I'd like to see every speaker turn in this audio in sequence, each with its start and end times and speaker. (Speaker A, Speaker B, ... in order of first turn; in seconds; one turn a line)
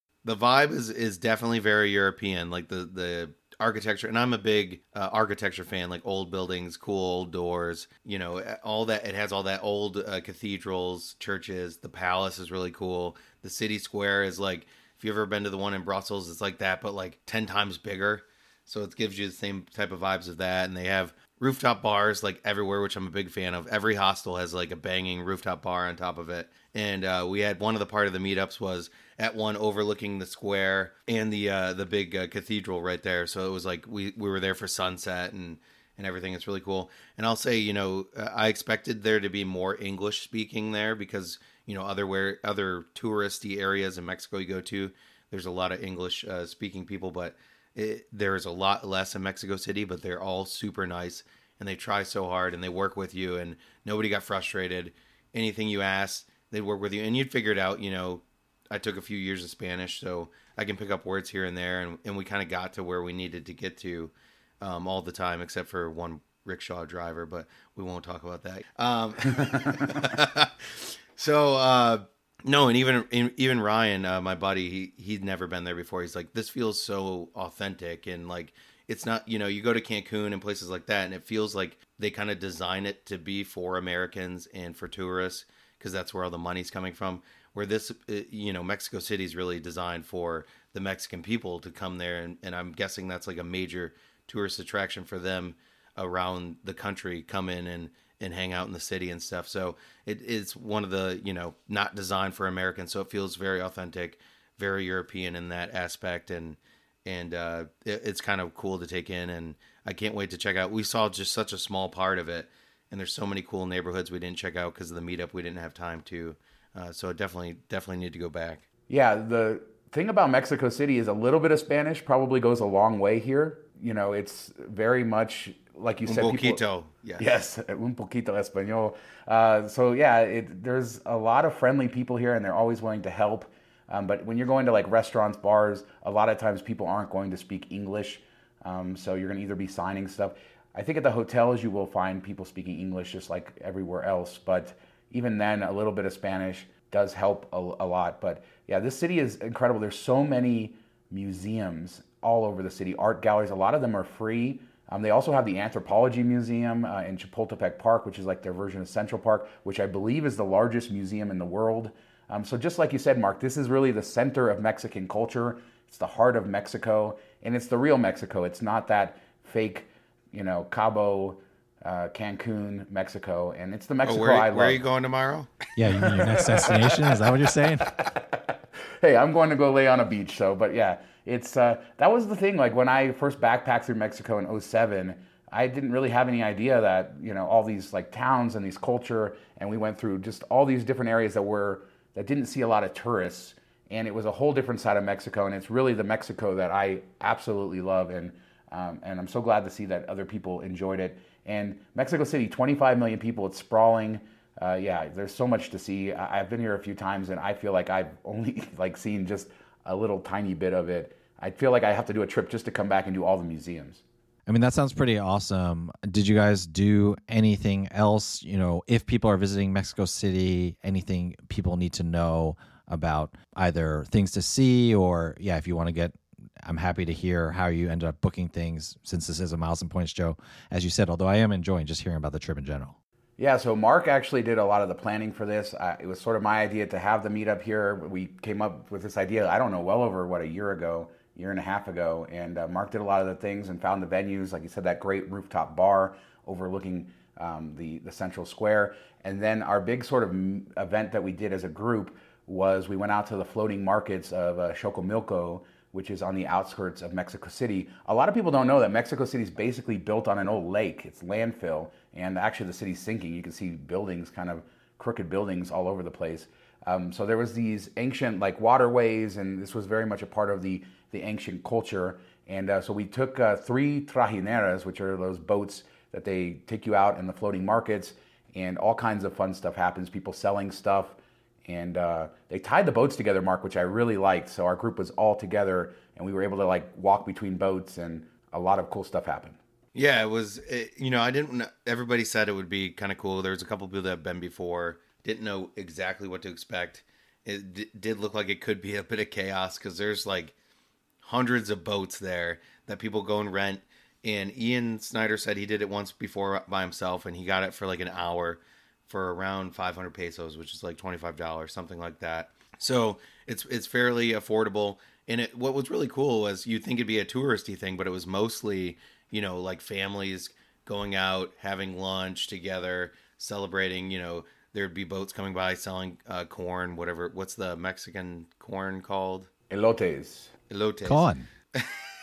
Speaker A: 0.2-118.6
Speaker B: 118.9-126.6
Speaker A: 126.1-127.2
Speaker B: 127.2-174.8
Speaker A: 174.0-175.5
Speaker C: 175.8-177.9
Speaker B: 176.0-214.0
Speaker C: 214.5-232.9
Speaker B: 233.4-289.6
Speaker A: 289.9-300.5
Speaker A: 301.2-329.5
Speaker B: 329.7-330.5
Speaker A: 330.7-332.1
Speaker C: 331.0-331.5